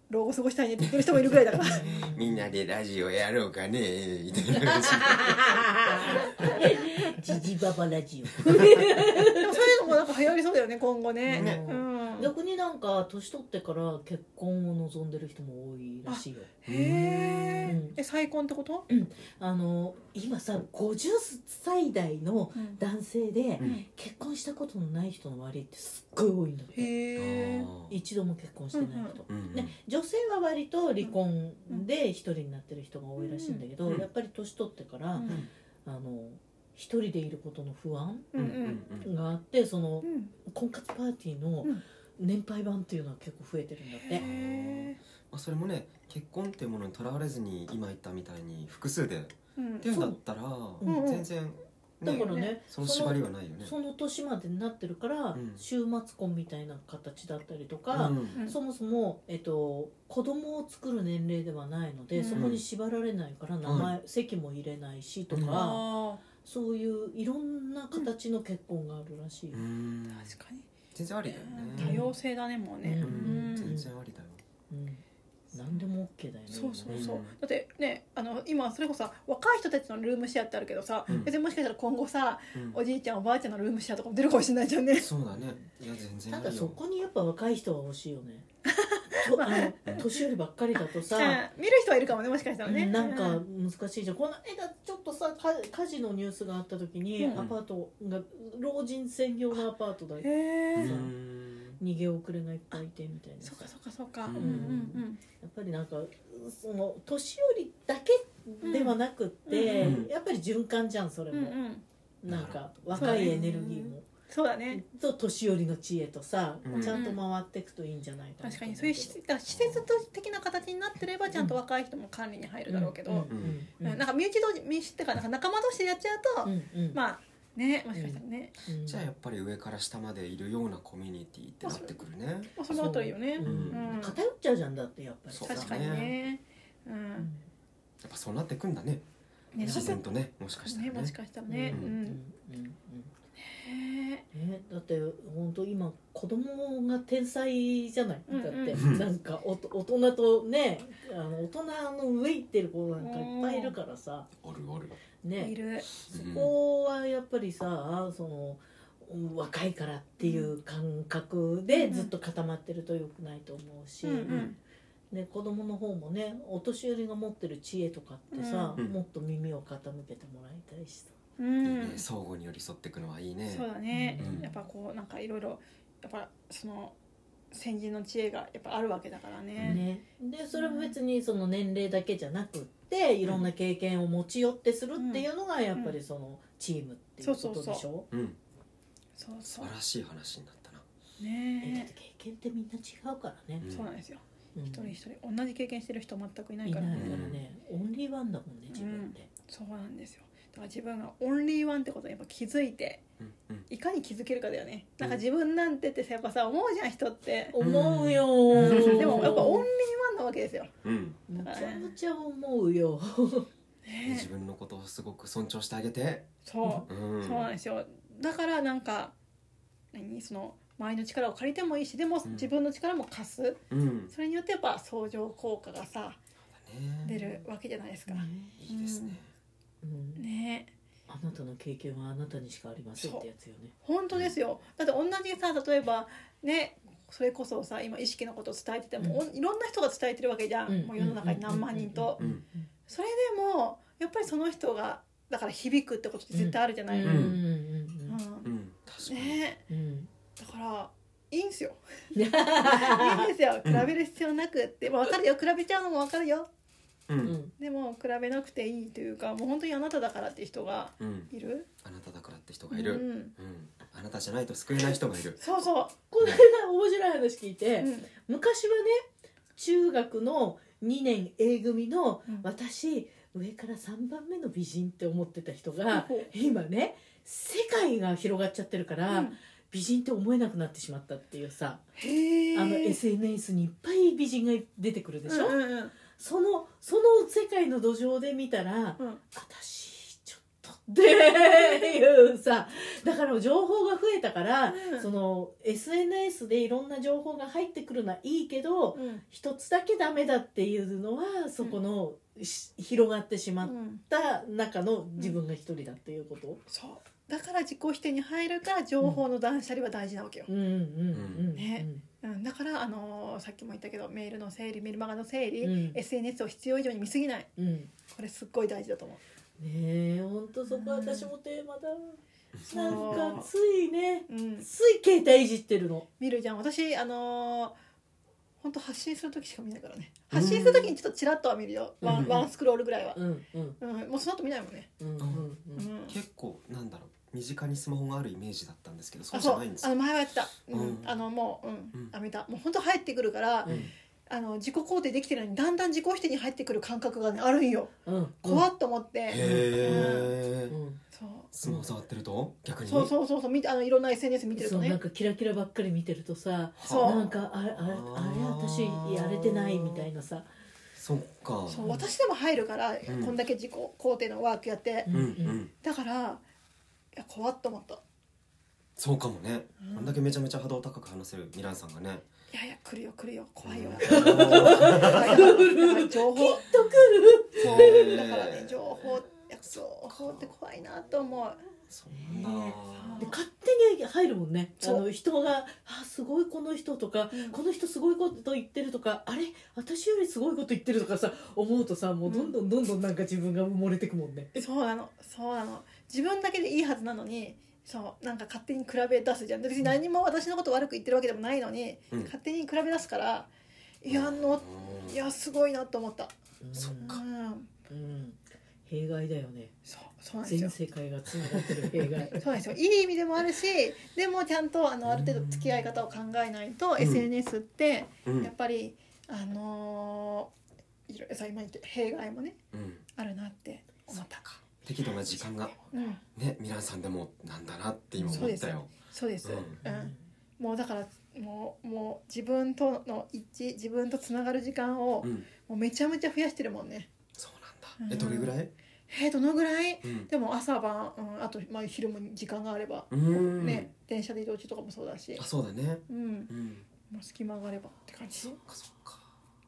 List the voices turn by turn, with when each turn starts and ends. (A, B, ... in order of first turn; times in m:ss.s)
0:00.1-0:01.9 A
0:01.0-0:06.6 B
0:01.6-0:02.5 C
0:04.5-0:09.7 C
0:06.1-0:07.1 A
0:08.5-0:08.8 B
0:09.2-0:12.3 A
0:11.3-0:16.5 C
0:11.4-0:11.6 B
0:16.1-0:18.9 A
0:16.6-0:17.8 B
0:17.6-0:18.0 C
0:18.9-0:26.9 C
0:22.6-0:22.8 A
0:23.6-0:23.9 A
0:26.8-0:27.7 A
0:27.2-0:28.0 B
0:27.9-0:38.3 C
0:28.7-0:29.2 A
0:29.3-0:29.7 B
0:33.2-0:33.6 A
0:35.1-0:35.4 A
0:38.3-0:38.8 A
0:38.4-0:39.1 B
0:39.0-0:44.2 C
0:40.0-0:40.3 A
0:44.0-0:45.0 A
0:44.2-0:53.8 B
0:49.6-0:50.1 A
0:50.8-0:51.3 A
0:52.0-1:05.9 C
0:52.1-0:52.6 A
0:55.3-0:55.6 B
0:57.9-0:58.4 B
1:02.1-1:02.5 A
1:02.3-1:02.6 B
1:03.6-1:04.0 B
1:05.3-1:05.6 B
1:05.5-1:06.2 A
1:06.4-1:09.6 C
1:09.5-1:10.3 B
1:10.1-1:10.7 A
1:10.9-1:12.0 B
1:11.3-1:13.7 A
1:11.8-1:12.1 C
1:12.8-1:13.9 C
1:13.0-1:14.4 B
1:14.7-1:17.1 C
1:16.5-1:25.1 A
1:16.9-1:17.3 B
1:22.5-1:22.8 B
1:25.0-1:26.8 B
1:26.3-1:28.5 C
1:28.6-1:30.2 A
1:29.1-1:31.4 C
1:30.8-1:33.4 A
1:32.6-1:40.3 C
1:37.2-1:37.4 A
1:40.2-1:41.0 A
1:40.8-1:41.8 B
1:40.8-1:41.1 C
1:41.8-1:43.7 C
1:43.4-1:45.2 A
1:44.3-1:44.8 B
1:44.4-1:51.6 C
1:48.6-1:50.0 A
1:49.8-1:50.1 B
1:51.3-1:51.8 A
1:52.2-1:54.1 C
1:52.3-1:53.3 B
1:53.0-1:54.8 A
1:54.7-1:59.2 C
1:56.6-1:57.0 B
1:56.8-1:57.2 A
1:58.4-2:08.6 A
1:59.5-1:59.9 B
2:02.7-2:04.0 C
2:03.3-2:03.6 B
2:06.4-2:07.0 C
2:07.9-2:09.1 C
2:08.8-2:12.6 B
2:11.6-2:12.0 A
2:12.6-2:14.2 A
2:12.7-2:15.8 C
2:13.4-2:14.0 B
2:15.3-2:16.1 B
2:15.5-2:17.3 A
2:17.2-2:17.5 C
2:18.0-2:19.0 B
2:19.5-2:20.1 A
2:19.6-2:21.1 B
2:19.6-2:20.0 C
2:20.6-2:22.2 A
2:21.5-2:23.1 C
2:23.4-2:24.2 A
2:24.3-2:34.3 C
2:28.3-2:28.8 A
2:28.7-2:29.1 B
2:33.0-2:33.8 A
2:34.4-2:35.0 B
2:35.2-2:44.5 C
2:35.4-2:35.9 A
2:36.1-2:36.5 B
2:40.2-2:40.5 A
2:41.7-2:42.1 A
2:44.0-2:44.6 A
2:45.1-2:51.1 C
2:48.3-2:48.8 A
2:51.4-2:52.0 A
2:51.6-2:54.5 B
2:53.5-2:57.0 A
2:53.9-2:54.5 C
2:57.5-2:59.8 A
2:59.6-2:59.8 B
2:59.6-3:08.1 C
3:00.5-3:01.0 A
3:05.0-3:06.0 A
3:07.2-3:07.8 A
3:08.1-3:08.4 B
3:09.2-3:09.7 A
3:09.6-3:10.8 B
3:11.2-3:11.9 A
3:11.6-3:13.7 C
3:13.6-3:13.9 B
3:13.7-3:17.2 A
3:14.6-3:15.0 C
3:16.6-3:19.3 C
3:16.9-3:17.4 B
3:18.7-3:23.0 A
3:23.2-3:23.7 B
3:23.7-3:27.6 A
3:27.5-3:29.7 C
3:27.6-3:29.4 B
3:28.5-3:30.7 A
3:30.8-3:31.2 B
3:31.3-3:33.5 C
3:31.4-3:31.9 A
3:33.9-3:34.3 A
3:34.0-3:36.3 B
3:36.4-3:39.1 A
3:36.9-3:37.5 B
3:39.9-3:46.2 A
3:42.2-3:42.5 B
3:43.7-3:44.1 B
3:46.6-3:47.4 B
3:47.0-3:49.2 A
3:48.1-3:48.6 C
3:48.6-3:49.3 B
3:49.8-3:50.2 C
3:50.2-3:50.7 A
3:51.1-3:53.7 C
3:53.0-3:53.2 A
3:53.8-4:02.2 A
4:00.7-4:02.7 C
4:02.9-4:07.3 A
4:06.3-4:08.2 C
4:07.0-4:07.4 B
4:08.1-4:08.5 A
4:08.4-4:09.4 B
4:09.0-4:09.6 A
4:09.7-4:10.1 C
4:10.4-4:11.8 A
4:12.1-4:13.3 C
4:12.6-4:16.5 A
4:17.1-4:17.4 B
4:17.2-4:17.5 C
4:17.6-4:21.7 A
4:21.0-4:21.3 B
4:21.8-4:25.4 B
4:22.7-4:23.3 A
4:25.4-4:25.9 A
4:26.1-4:29.0 C
4:27.8-4:28.1 A
4:29.6-4:41.8 C
4:35.9-4:36.3 A
4:39.1-4:39.4 A
4:42.0-4:43.0 A
4:42.5-5:06.6 C
4:45.3-4:45.9 A
4:51.4-4:51.9 A
4:54.7-4:55.1 A
4:58.9-4:59.2 A
5:03.6-5:04.0 A
5:06.7-5:10.5 A
5:10.5-5:12.0 C
5:11.1-5:11.5 B
5:11.6-5:17.5 A
5:15.6-5:16.0 C
5:17.6-5:17.9 C
5:18.1-5:19.2 A
5:19.6-5:26.1 C
5:20.7-5:21.3 A
5:22.6-5:23.1 B
5:22.7-5:23.5 A
5:24.3-5:24.7 A
5:26.2-5:27.8 A
5:28.6-5:33.2 A
5:30.3-5:30.9 B
5:32.0-5:32.4 C
5:32.0-5:32.4 B
5:33.1-5:33.8 C
5:33.8-5:34.9 A
5:35.0-5:35.9 C
5:35.2-5:35.5 B
5:35.7-5:36.2 A
5:36.1-5:39.9 B
5:39.3-5:43.7 A
5:40.7-5:41.2 B
5:43.6-5:43.9 C
5:43.7-5:43.9 B
5:44.3-5:50.3 A
5:48.0-5:48.7 C
5:49.3-5:50.8 B
5:49.4-5:51.0 C
5:51.1-5:51.5 A
5:51.5-5:53.1 B
5:51.6-5:51.9 C
5:52.9-5:55.0 A
5:54.6-6:00.5 C
5:56.8-6:00.1 B
5:56.8-5:57.3 A
6:01.0-6:02.0 B
6:01.7-6:05.1 A
6:03.1-6:03.4 B
6:05.1-6:05.6 C
6:05.1-6:05.7 B
6:05.8-6:06.4 A
6:07.1-6:08.0 A
6:09.0-6:12.2 B
6:09.8-6:10.2 A
6:12.5-6:16.7 A
6:13.6-6:15.6 B
6:14.0-6:18.2 C
6:17.6-6:19.1 B
6:17.6-6:21.6 A
6:19.7-6:20.5 B
6:21.9-6:23.2 B
6:22.1-6:34.7 C
6:22.9-6:23.4 A
6:27.3-6:27.6 A
6:32.3-6:32.6 A
6:34.6-6:43.5 A
6:44.0-6:47.7 A
6:44.1-6:45.2 B
6:46.6-6:47.2 C
6:46.8-6:47.1 B
6:47.9-6:49.7 C
6:49.9-6:50.7 A
6:50.4-6:52.4 C
6:51.5-6:52.1 B
6:52.2-7:00.5 A
6:55.0-6:55.8 B
6:57.0-6:57.3 B
6:58.2-6:58.5 B
7:01.1-7:02.6 A
7:02.7-7:03.0 B
7:03.1-7:04.4 A
7:04.4-7:08.9 B
7:05.8-7:06.2 A
7:08.2-7:08.6 C
7:08.3-7:17.1 A
7:09.4-7:09.8 B
7:09.8-7:10.2 C
7:15.2-7:15.5 B
7:17.4-7:18.7 B
7:18.0-7:18.5 A
7:19.1-7:25.4 A
7:20.0-7:20.3 B
7:23.1-7:23.9 B
7:25.4-7:26.8 B
7:26.1-7:26.5 A
7:27.1-7:28.6 A
7:28.4-7:29.3 B